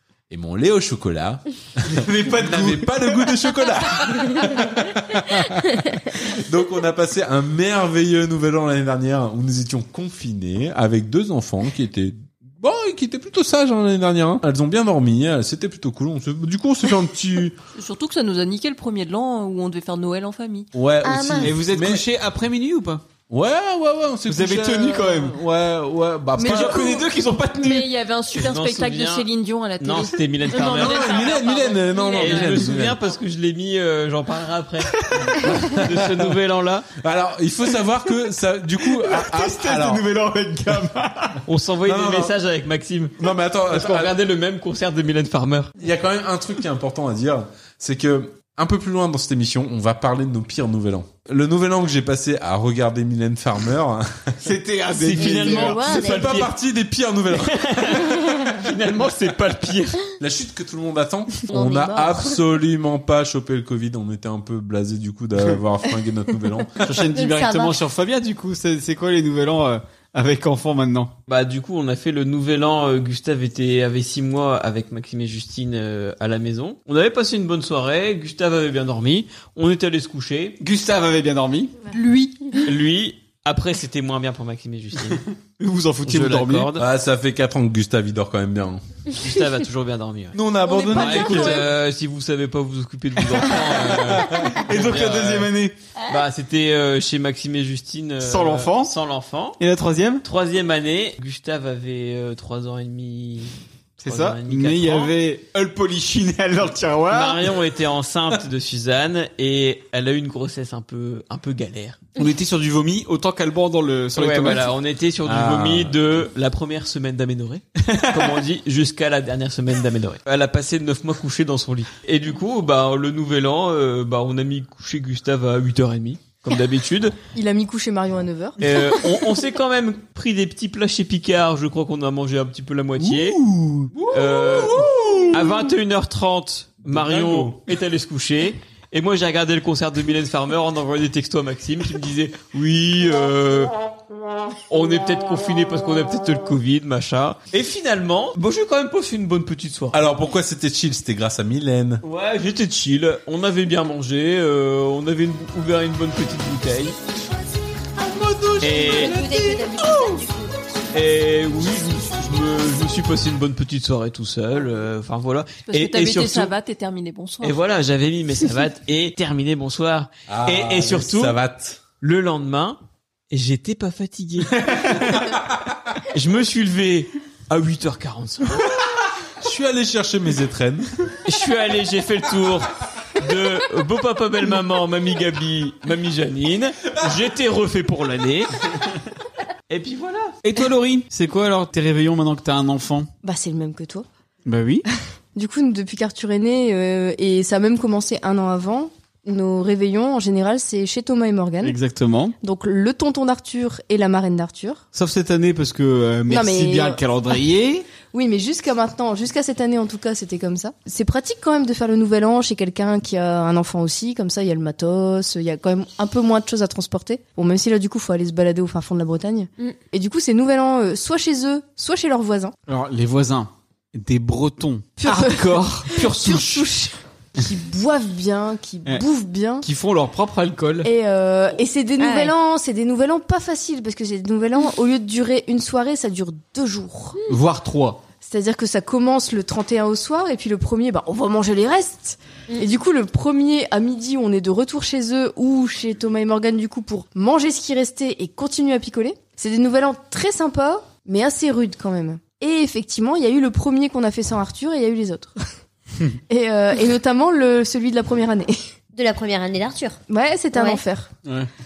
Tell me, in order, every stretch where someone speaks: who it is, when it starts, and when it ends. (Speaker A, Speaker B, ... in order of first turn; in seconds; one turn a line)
Speaker A: 0.3-17.6
Speaker B: 1.9-3.2
Speaker C: 17.7-20.7
Speaker A: 20.7-22.0
Speaker D: 21.0-21.5
Speaker B: 21.4-23.0
Speaker A: 23.3-27.0
Speaker B: 24.3-25.4
Speaker C: 26.4-26.9
Speaker B: 26.4-27.8
Speaker C: 27.5-32.4
Speaker E: 28.3-29.3
Speaker E: 29.8-31.3
Speaker A: 30.6-33.0
Speaker E: 32.1-36.9
Speaker A: 35.4-36.3
Speaker A: 37.0-40.0
Speaker B: 39.0-41.4
Speaker E: 41.5-43.1
Speaker A: 41.8-42.3
Speaker A: 43.2-44.1
Speaker E: 43.7-45.7
Speaker A: 45.8-54.3
Speaker B: 54.4-55.9
Speaker E: 54.9-56.5
Speaker D: 55.2-56.4
Speaker A: 55.9-58.1
Speaker E: 57.4-60.0
Speaker A: 60.2-66.8
Speaker D: 61.5-62.4
Speaker B: 66.8-71.1
Speaker D: 67.1-67.8
Speaker E: 71.3-80.6
Speaker B: 80.6-81.7
Speaker C: 81.9-82.5
Speaker E: 82.6-85.2
Speaker B: 85.2-86.7
Speaker E: 86.0-86.8
Speaker A: 86.7-88.8
Speaker E: 89.2-90.4
Speaker A: 90.3-91.7
Speaker F: 90.8-91.5
Speaker E: 90.9-95.5
Speaker B: 94.6-95.7
Speaker E: 96.1-99.6
Speaker B: 98.2-99.0
Speaker B: 99.6-100.2
Speaker E: 100.2-103.5
Speaker B: 104.0-107.5
Speaker E: 104.0-105.1
Speaker E: 107.1-112.1
Speaker B: 112.2-114.7
Speaker E: 114.2-127.1
Speaker A: 115.2-116.2
Speaker F: 127.3-128.6
Speaker E: 128.6-133.4
Speaker B: 133.0-135.4
Speaker E: 134.1-143.7
Speaker B: 136.9-137.6
Speaker E: 144.7-150.0
Speaker A: 149.9-152.0
Speaker E: 152.0-157.0
Speaker A: 158.0-160.2
Speaker E: 158.6-159.2
Speaker D: 158.9-160.5
Speaker E: 160.9-166.5
Speaker C: 165.7-167.6
Speaker E: 167.4-171.4
Speaker A: 170.3-171.8
Speaker E: 172.0-172.8
Speaker E: 173.3-175.2
Speaker E: 176.1-178.7
Speaker A: 179.4-180.9
Speaker E: 181.2-188.5
Speaker E: 189.7-190.4
Speaker B: 190.4-193.1
Speaker F: 193.2-194.1
Speaker B: 194.4-194.8
Speaker F: 195.3-201.8
Speaker B: 201.6-202.3
Speaker F: 202.4-204.8
Speaker B: 204.9-207.9
Speaker F: 206.3-207.0
Speaker F: 208.0-222.5
Speaker B: 222.7-226.7
Speaker F: 225.0-229.7
Speaker B: 229.6-230.9
Speaker F: 230.8-237.2
Speaker D: 232.0-232.3
Speaker B: 237.2-238.0
Speaker F: 238.2-255.3
Speaker F: 256.3-258.6
Speaker D: 258.9-260.0
Speaker F: 260.1-261.1
Speaker D: 260.5-260.8